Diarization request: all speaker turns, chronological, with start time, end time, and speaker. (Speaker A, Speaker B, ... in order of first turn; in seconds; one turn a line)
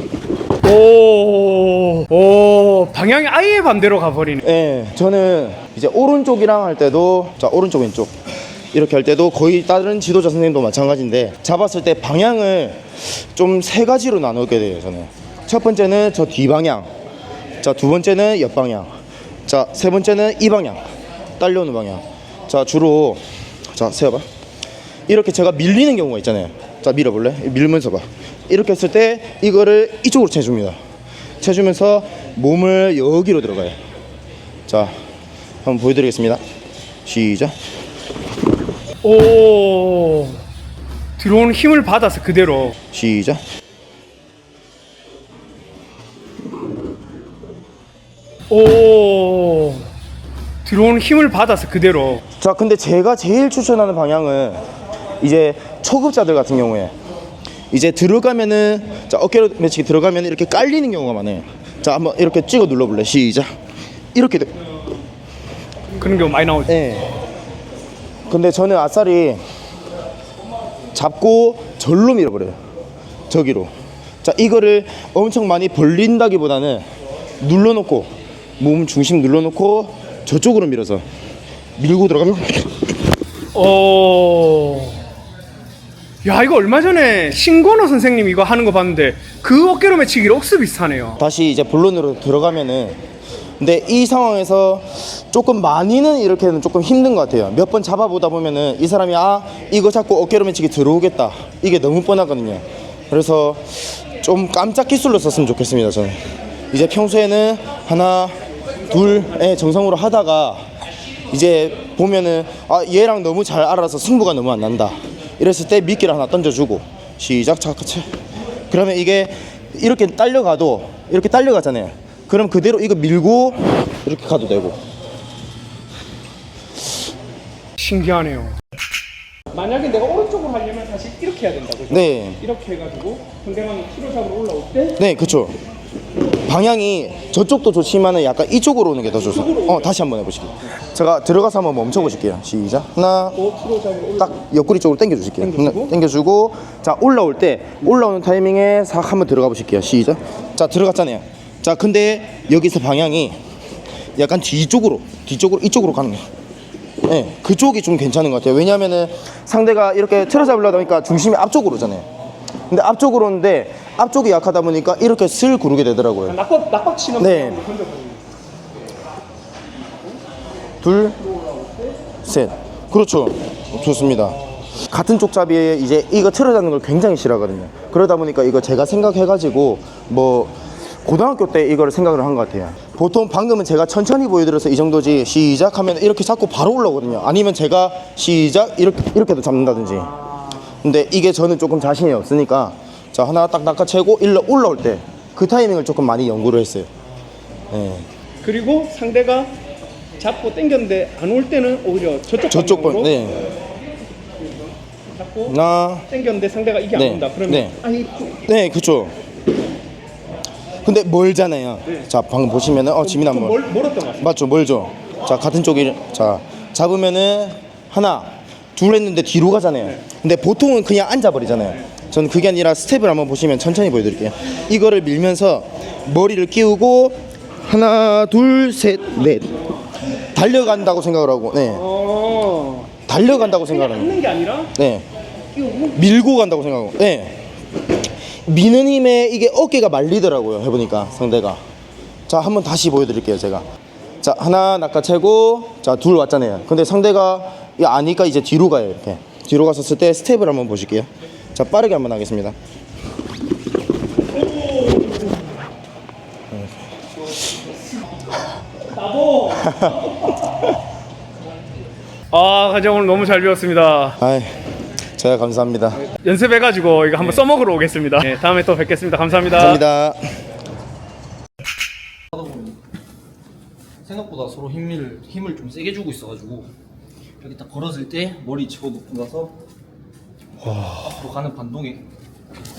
Speaker A: 0.6-4.5
Speaker B: 4.4-8.2
Speaker B: 8.7-16.9
Speaker B: 17.6-18.9
Speaker B: 19.5-20.8
Speaker B: 21.4-24.3
Speaker B: 25.1-30.8
Speaker B: 31.4-33.8
Speaker B: 34.7-35.0
Speaker B: 35.6-36.4
Speaker B: 37.1-37.6
Speaker A: 39.0-40.4
Speaker A: 41.2-42.8
Speaker B: 42.9-43.4
Speaker A: 48.5-49.9
Speaker A: 50.6-52.2
Speaker B: 52.4-54.6
Speaker B: 55.2-56.9
Speaker B: 57.7-63.5
Speaker B: 64.2-64.5
Speaker A: 66.0-66.8
Speaker B: 66.7-67.1
Speaker B: 68.3-69.4
Speaker B: 71.0-72.6
Speaker B: 73.3-81.0
Speaker B: 81.8-82.8
Speaker A: 83.5-85.0
Speaker A: 86.2-91.2
Speaker B: 91.2-93.0
Speaker B: 93.6-108.4
Speaker B: 108.9-110.7
Speaker B: 111.3-118.1
Speaker B: 118.7-124.8
Speaker A: 127.8-128.6
Speaker A: 129.5-135.0
Speaker B: 131.9-132.4
Speaker B: 135.0-135.6
Speaker B: 136.4-143.4
Speaker A: 139.1-140.1
Speaker A: 143.4-144.3
Speaker B: 144.2-153.4
Speaker A: 145.4-145.9
Speaker B: 154.2-156.3
Speaker B: 157.1-162.1
Speaker B: 162.7-166.4
Speaker A: 166.3-168.2
Speaker B: 167.2-167.6
Speaker B: 170.8-171.2
Speaker B: 172.2-196.9
Speaker B: 197.7-198.1
Speaker A: 198.4-199.5
Speaker A: 200.2-203.2
Speaker B: 202.5-203.5
Speaker A: 205.2-205.6
Speaker B: 205.5-206.1
Speaker A: 206.1-208.4
Speaker B: 206.9-207.8
Speaker B: 208.4-209.1
Speaker B: 210.8-213.6
Speaker A: 213.0-214.3
Speaker B: 214.2-229.7
Speaker B: 230.2-231.9
Speaker A: 231.7-234.7
Speaker B: 233.1-234.2
Speaker B: 234.7-235.1
Speaker A: 235.6-235.9
Speaker B: 235.8-237.4
Speaker B: 238.4-241.6
Speaker B: 242.3-243.7
Speaker B: 244.2-252.6
Speaker A: 254.5-255.4
Speaker B: 256.5-257.4
Speaker A: 258.9-260.4
Speaker B: 259.5-260.2
Speaker A: 262.3-264.2
Speaker B: 264.2-264.6
Speaker B: 265.2-266.1
Speaker A: 266.0-269.8
Speaker B: 269.5-270.4
Speaker C: 272.3-272.8
Speaker C: 274.0-276.7
Speaker C: 277.4-279.6
Speaker C: 280.8-282.0